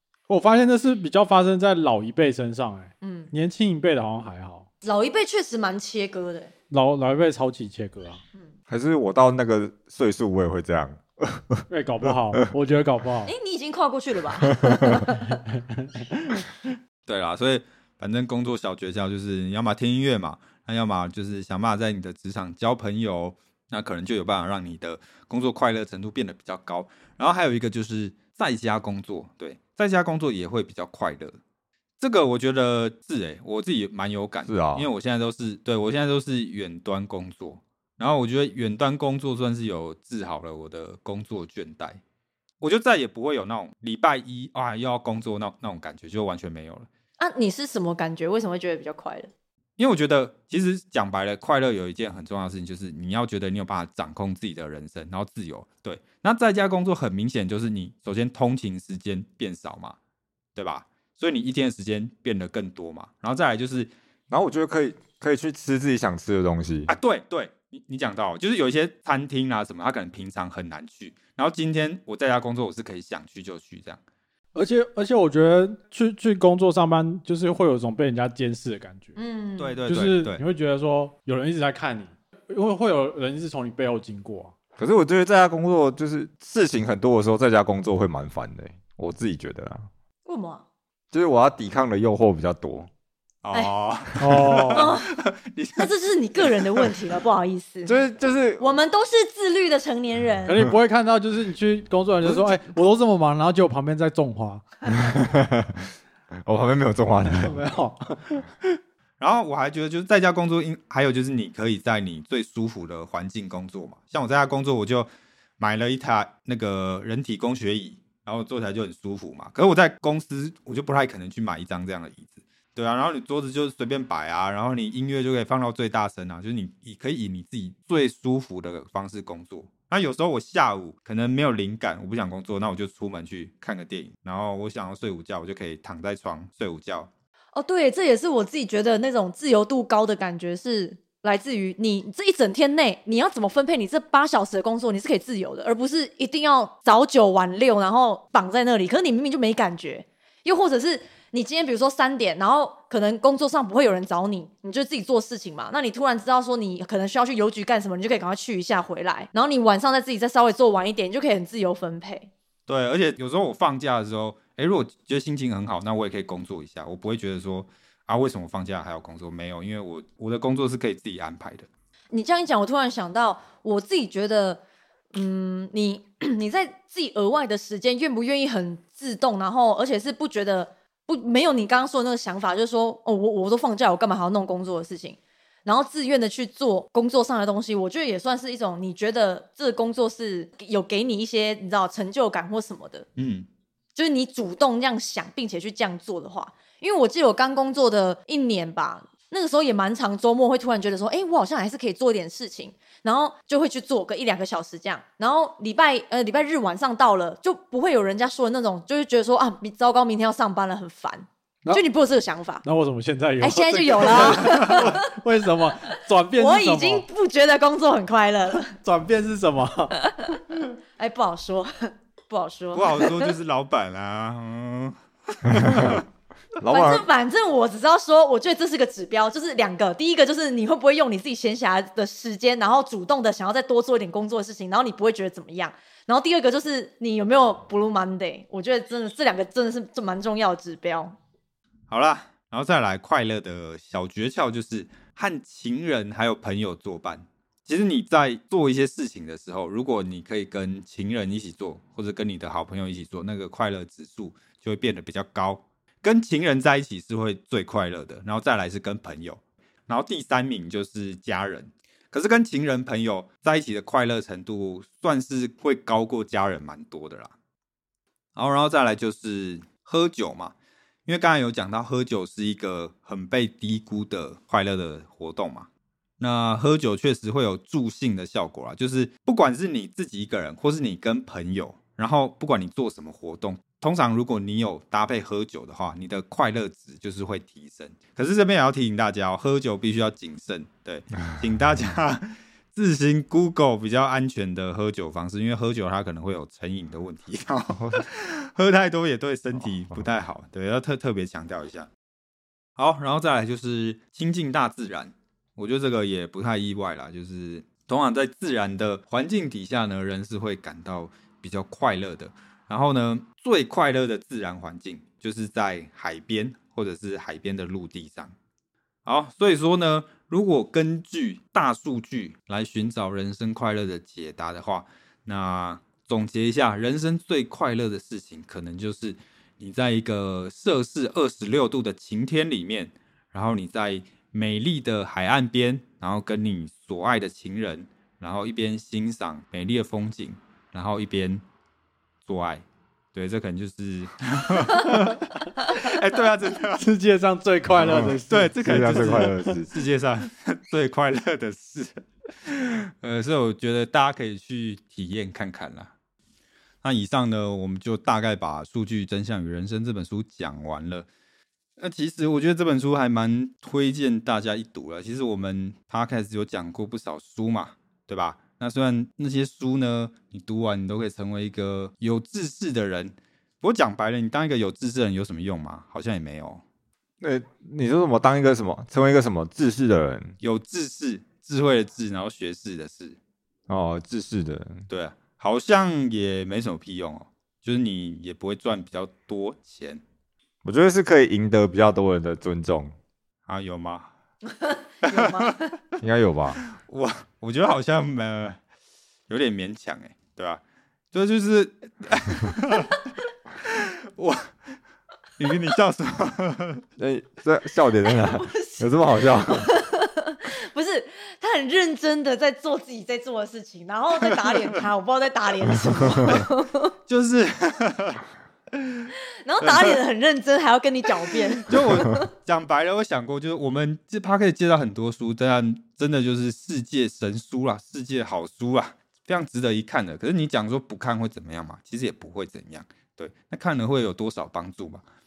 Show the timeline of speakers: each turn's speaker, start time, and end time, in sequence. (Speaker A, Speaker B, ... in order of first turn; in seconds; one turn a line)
Speaker A: 0.3-4.7
Speaker B: 3.0-3.3
Speaker B: 4.8-6.5
Speaker A: 6.7-8.2
Speaker C: 8.7-12.3
Speaker A: 11.7-13.3
Speaker B: 13.2-15.4
Speaker C: 14.5-15.0
Speaker A: 15.5-16.4
Speaker D: 17.1-31.4
Speaker D: 32.0-42.0
Speaker C: 34.5-34.9
Speaker D: 42.6-46.9
Speaker B: 47.2-49.3
Speaker D: 49.8-60.0
Speaker D: 60.5-63.9
Speaker C: 64.3-66.9
Speaker D: 66.9-74.0
Speaker A: 74.5-79.2
Speaker B: 79.2-79.8
Speaker D: 79.6-80.4
Speaker A: 79.8-84.5
Speaker C: 84.8-89.9
Speaker B: 90.2-90.6
Speaker C: 91.1-92.9
Speaker D: 93.4-96.9
Speaker A: 94.2-94.9
Speaker B: 94.7-95.1
Speaker B: 95.8-98.0
Speaker C: 97.8-98.7
Speaker B: 98.6-100.6
Speaker A: 100.4-104.6
Speaker C: 104.9-105.8
Speaker C: 106.4-107.6
Speaker A: 107.2-108.7
Speaker D: 109.2-137.1
Speaker B: 137.5-162.3
Speaker D: 162.7-171.7
Speaker B: 172.1-174.6
Speaker B: 175.1-193.1
Speaker D: 193.2-193.5
Speaker B: 193.9-212.6
Speaker A: 212.6-217.1
Speaker B: 213.4-215.0
Speaker D: 214.0-214.8
Speaker B: 216.3-218.7
Speaker A: 218.8-220.0
Speaker B: 220.2-220.4
Speaker B: 221.0-223.3
Speaker D: 222.7-226.0
Speaker C: 225.5-226.0
Speaker C: 226.6-227.1
Speaker B: 226.7-241.1
Speaker D: 241.9-267.3
Speaker D: 268.4-270.5
Speaker D: 271.1-275.7
Speaker D: 276.2-301.9
Speaker C: 297.7-298.0
Speaker D: 302.8-318.3
Speaker D: 319.0-341.4
Speaker D: 342.2-346.8
Speaker A: 346.8-349.5
Speaker C: 347.7-349.7
Speaker D: 348.3-355.9
Speaker D: 356.8-361.1
Speaker D: 361.8-376.6
Speaker C: 377.2-380.3
Speaker D: 380.4-383.2
Speaker C: 383.7-384.9
Speaker D: 384.9-390.0
Speaker C: 390.6-392.9
Speaker D: 393.5-394.1
Speaker B: 394.5-395.7
Speaker D: 395.0-395.6
Speaker C: 396.0-396.6
Speaker D: 396.6-398.6
Speaker D: 399.3-400.6
Speaker D: 401.1-403.0
Speaker D: 403.6-404.5
Speaker D: 405.4-406.8
Speaker C: 407.0-409.8
Speaker B: 408.0-416.9
Speaker D: 417.1-418.2
Speaker D: 418.7-420.0
Speaker B: 419.4-422.3
Speaker D: 421.6-435.0